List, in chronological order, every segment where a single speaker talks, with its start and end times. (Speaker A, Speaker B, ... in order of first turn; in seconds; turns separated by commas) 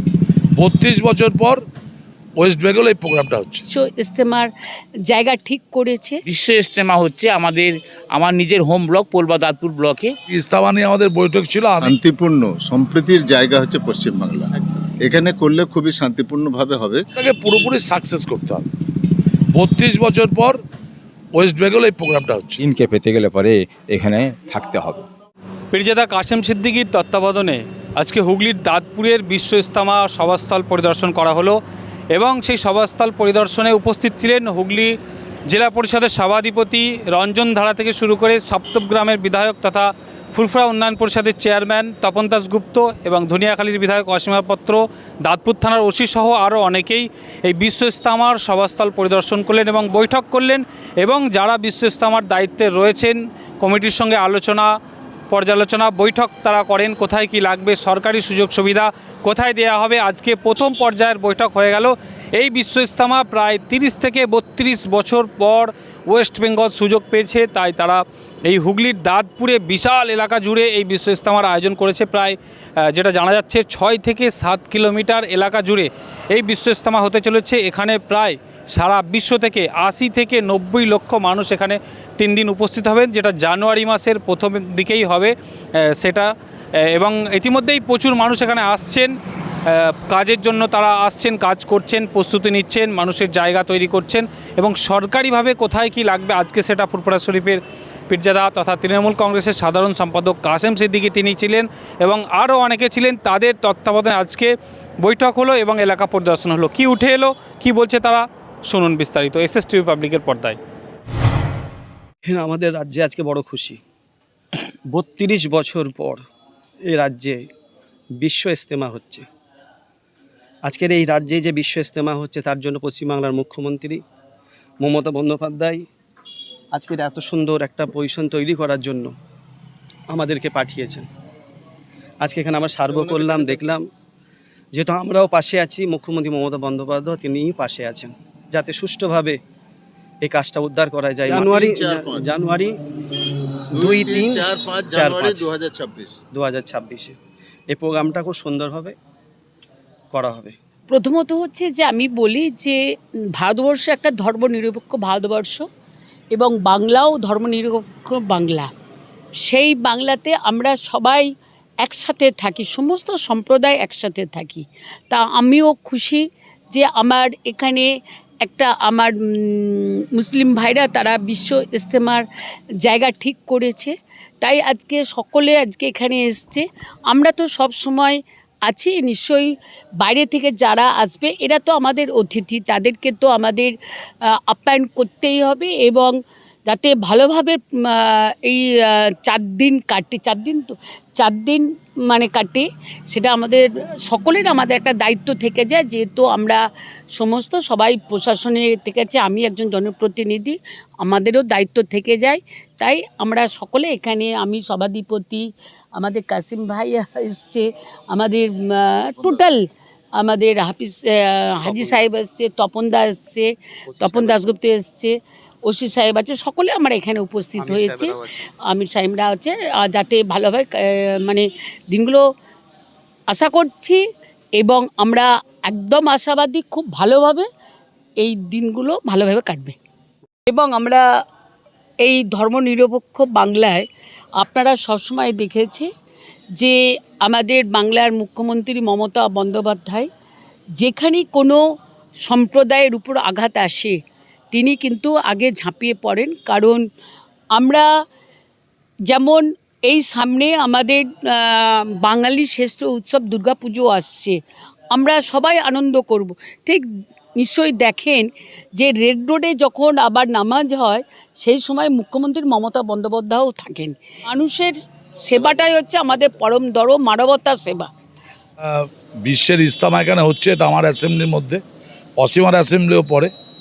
Speaker A: 0.6-1.6, Speaker A: 2.4-3.6, Speaker B: 3.7-4.5, Speaker B: 5.1-6.2, Speaker C: 6.3-10.1, Speaker A: 10.3-11.9, Speaker D: 11.8-14.5, Speaker D: 15.0-17.0, Speaker A: 17.2-18.6, Speaker A: 19.5-20.6, Speaker A: 21.3-22.6, Speaker E: 22.6-25.0, Speaker F: 25.7-31.6, Speaker F: 32.1-34.9, Speaker F: 35.5-54.7, Speaker F: 55.3-86.3, Speaker F: 86.8-89.1, Speaker F: 89.7-110.6, Speaker G: 112.2-113.8, Speaker G: 114.9-116.2, Speaker G: 116.8-117.4, Speaker G: 118.2-119.2, Speaker G: 120.6-124.0, Speaker G: 124.8-125.8, Speaker G: 126.7-129.1, Speaker G: 130.1-131.1, Speaker G: 132.2-133.9, Speaker D: 132.9-133.7, Speaker G: 134.7-139.4, Speaker G: 140.2-142.8, Speaker D: 141.3-142.2, Speaker G: 143.7-145.5, Speaker D: 143.7-146.2, Speaker G: 146.3-147.2, Speaker G: 147.7-148.9, Speaker G: 150.1-150.5, Speaker B: 150.9-152.8, Speaker B: 153.4-155.6, Speaker B: 156.3-158.7, Speaker B: 159.4-161.3, Speaker B: 161.8-167.9, Speaker B: 168.4-172.2, Speaker B: 172.8-183.7, Speaker B: 184.3-186.2, Speaker B: 186.7-196.6, Speaker B: 197.2-209.6, Speaker B: 210.2-215.1, Speaker G: 211.7-212.1, Speaker G: 213.9-214.4, Speaker B: 215.7-222.2, Speaker G: 217.6-218.4, Speaker B: 223.3-224.0, Speaker B: 224.6-227.4, Speaker B: 228.2-229.8, Speaker B: 230.5-231.0, Speaker B: 232.0-233.8, Speaker B: 234.4-235.9, Speaker B: 236.6-240.1, Speaker B: 240.8-241.6, Speaker B: 242.2-244.0, Speaker B: 244.5-246.8, Speaker B: 247.5-247.9, Speaker B: 249.1-254.4, Speaker B: 254.9-256.8, Speaker B: 257.4-267.9, Speaker A: 268.6-271.6, Speaker A: 272.2-273.3